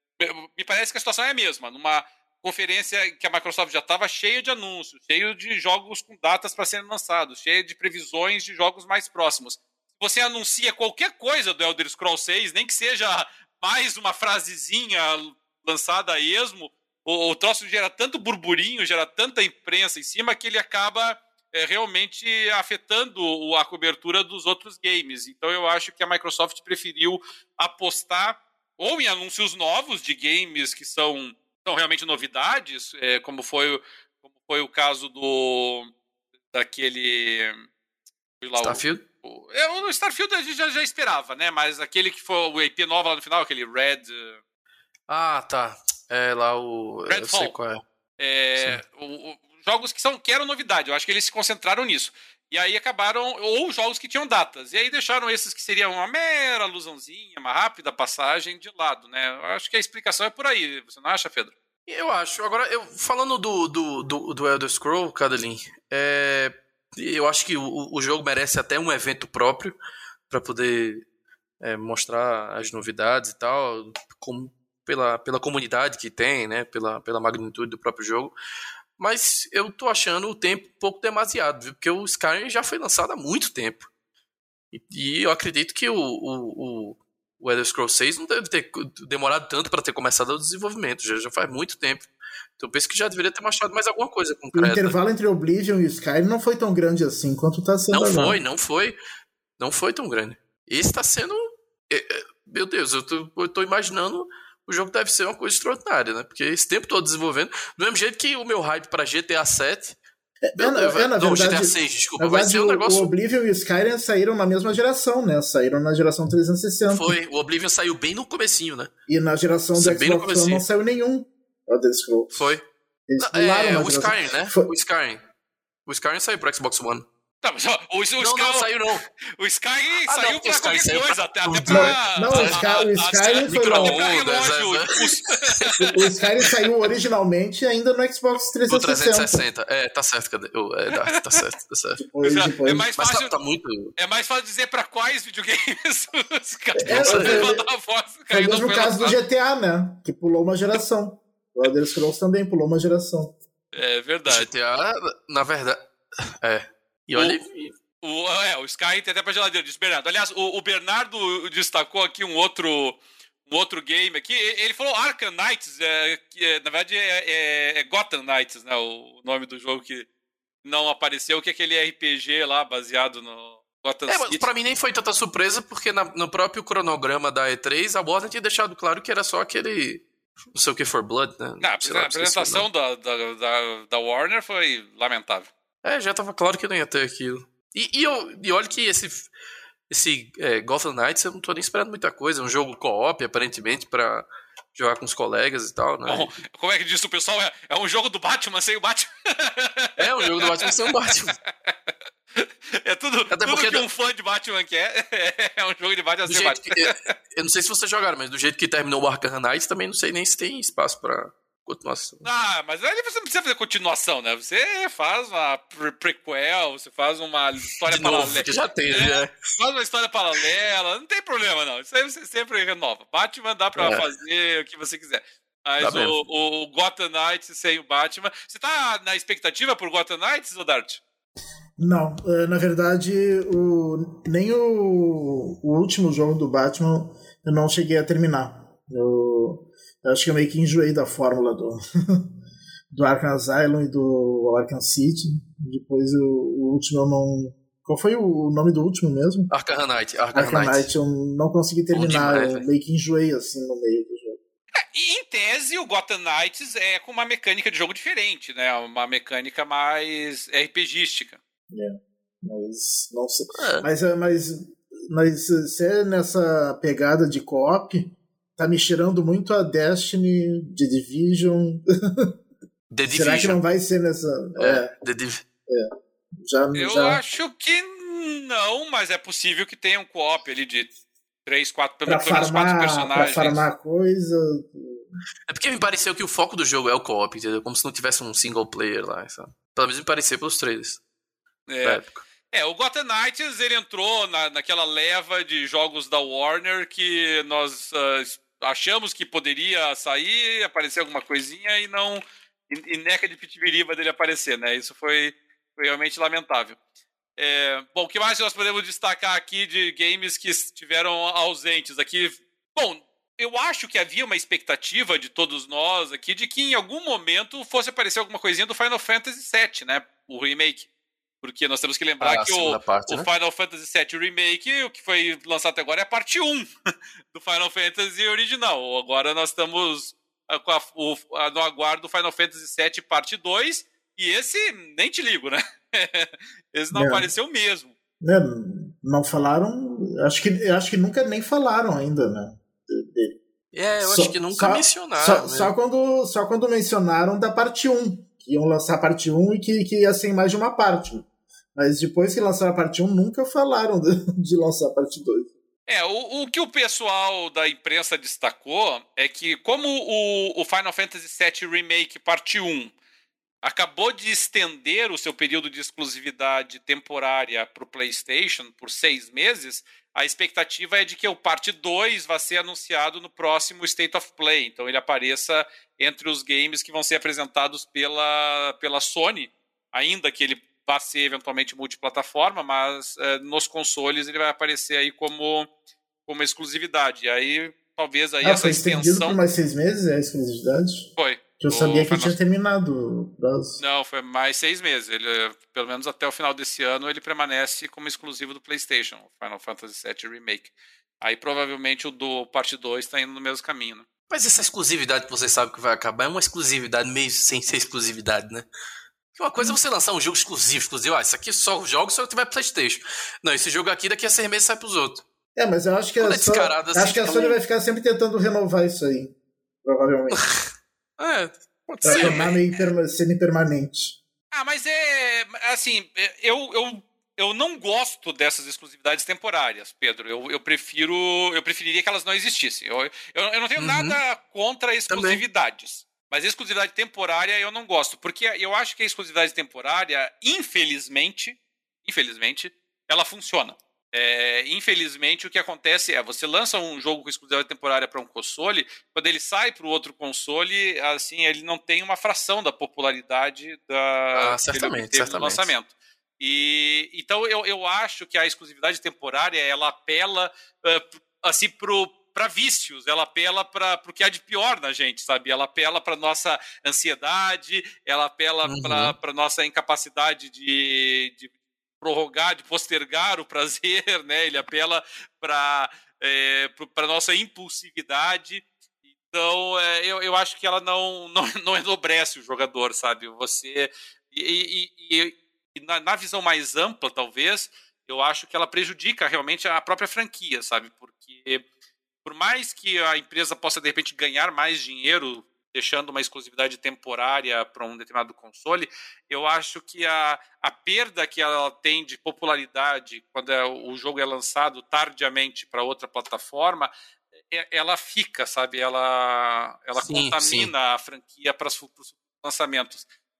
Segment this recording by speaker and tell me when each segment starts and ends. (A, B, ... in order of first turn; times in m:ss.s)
0:00.2-0:33.8 A
0:34.4-0:35.9 A
0:36.5-0:37.6 A
0:38.4-0:44.4 A
0:38.6-0:39.0 B
0:45.1-0:47.8 B
0:47.1-0:47.5 A
0:48.2-1:01.5 A
1:01.9-1:09.8 B
1:10.3-1:11.0 B
1:11.6-1:18.3 B
1:19.0-1:23.9 B
1:24.7-1:32.1 B
1:32.6-1:35.0 B
1:34.5-1:38.4 C
1:37.9-1:39.0 B
1:39.6-1:50.0 B
1:50.5-1:57.2 C
1:50.6-1:53.1 B
1:56.9-1:58.9 B
1:59.1-2:02.5 C
1:59.7-2:00.6 B
2:02.3-2:02.6 B
2:03.1-2:04.7 C
2:03.2-2:05.2 B
2:05.8-2:07.0 B
2:07.4-2:08.7 A
2:08.2-2:09.0 B
2:09.4-2:15.9 A
2:10.1-2:12.6 B
2:11.7-2:14.1 C
2:13.5-2:15.9 B
2:15.8-2:19.4 C
2:18.7-2:22.0 B
2:21.0-2:21.4 A
2:22.0-2:22.9 C
2:22.2-2:23.3 A
2:23.0-2:23.9 B
2:24.0-2:29.2 A
2:26.8-2:27.7 C
2:26.9-2:27.5 B
2:28.3-2:33.4 C
2:33.7-2:34.5 A
2:34.3-2:35.9 B
2:36.4-2:37.7 B
2:37.1-2:37.4 A
2:38.0-2:50.1 A
2:50.6-2:54.5 A
2:54.1-3:02.7 B
3:01.6-3:05.5 A
3:05.8-3:09.3 B
3:09.9-3:16.4 B
3:16.0-3:21.1 A
3:20.0-3:21.4 B
3:22.4-3:27.1 A
3:23.3-3:23.8 B
3:26.3-3:32.3 B
3:32.2-3:51.0 A
3:37.8-3:39.3 B
3:43.7-3:44.0 B
3:45.8-3:46.2 B
3:51.8-4:02.2 C
4:02.9-4:09.5 C
4:09.5-4:10.9 B
4:10.3-4:14.4 C
4:11.9-4:12.6 B
4:14.9-4:21.4 A
4:21.7-4:31.8 C
4:23.6-4:23.8 B
4:32.9-4:33.6 B
4:33.1-4:34.9 C
4:34.6-4:35.4 B
4:36.4-4:37.2 C
4:36.7-4:40.9 A
4:41.4-4:43.6 A
4:42.0-4:45.1 C
4:45.5-4:51.0 B
4:51.7-5:06.8 A
4:51.8-4:52.2 B
5:07.4-5:20.9 A
5:21.4-5:26.7 A
5:22.2-5:23.3 B
5:27.3-5:37.9 A
5:36.9-5:37.2 C
5:38.2-5:43.4 C
5:43.7-5:45.7 B
5:44.0-5:55.5 C
5:55.9-6:02.9 A
6:03.6-6:25.7 A
6:26.2-6:29.4 A
6:28.4-6:31.1 C
6:31.2-6:32.4 A
6:31.6-6:33.8 C
6:33.8-6:44.0 A
6:44.3-6:48.7 B
6:49.3-6:55.2 B
6:55.6-7:00.4 C
6:56.2-6:57.6 B
7:00.3-7:00.6 B
7:01.2-7:02.6 B
7:02.0-7:02.5 A
7:02.0-7:04.2 C
7:04.5-7:58.6 A
7:13.8-7:14.2 B
7:15.1-7:15.4 B
7:34.4-7:35.7 B
7:48.6-7:49.1 B
7:59.3-8:11.6 A
8:12.2-8:26.9 A
8:27.5-8:33.0 A
8:30.0-8:30.7 B